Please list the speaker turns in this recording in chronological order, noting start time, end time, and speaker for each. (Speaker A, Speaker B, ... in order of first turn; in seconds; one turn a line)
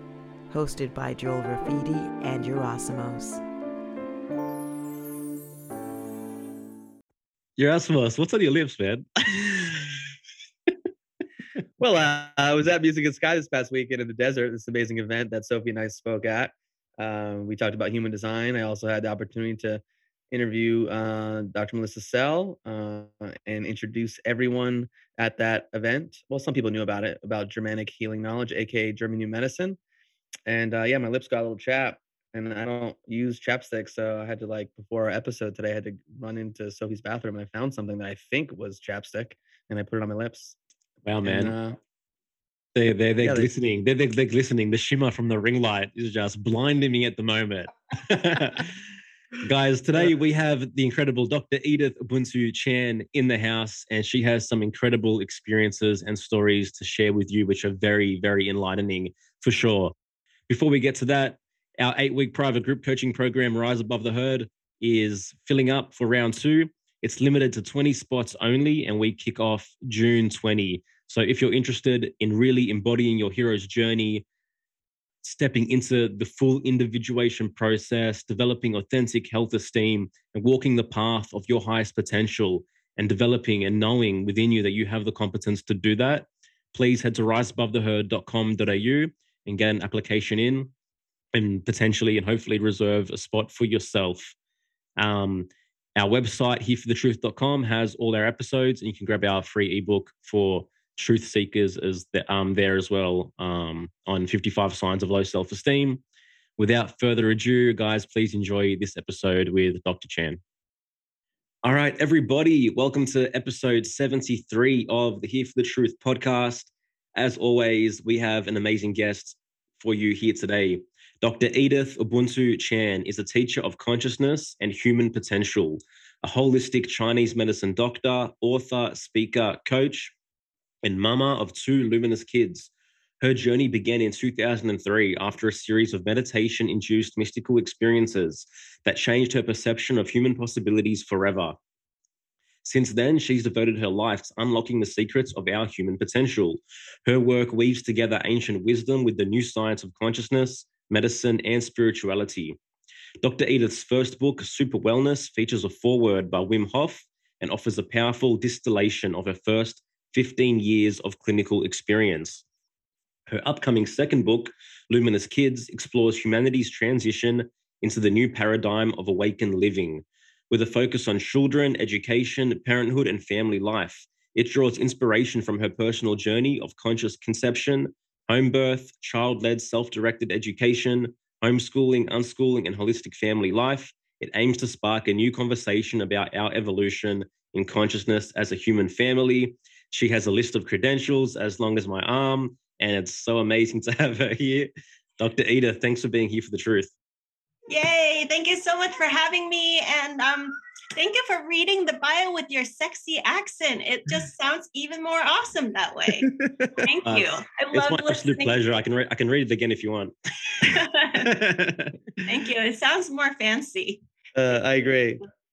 Speaker A: 0.5-3.4
Speaker B: 7.6-9.7
Speaker C: 11.8-29.8
Speaker C: 30.5-40.6
Speaker B: 41.0-41.6
Speaker C: 41.2-41.8
Speaker B: 42.8-48.7
Speaker C: 43.2-43.5
Speaker B: 49.4-59.9
Speaker B: 60.5-74.2
Speaker B: 75.2-90.7
Speaker B: 91.3-94.3
Speaker B: 95.0-106.0
Speaker B: 106.6-110.4
Speaker B: 111.6-130.1
Speaker B: 130.8-132.7
Speaker B: 133.2-141.6
Speaker B: 142.6-152.6
Speaker B: 153.2-162.4
Speaker B: 163.3-196.9
Speaker D: 197.7-208.5
Speaker C: 206.3-206.9
Speaker B: 207.1-211.9
Speaker D: 210.6-211.2
Speaker D: 212.2-214.0
Speaker C: 214.3-215.2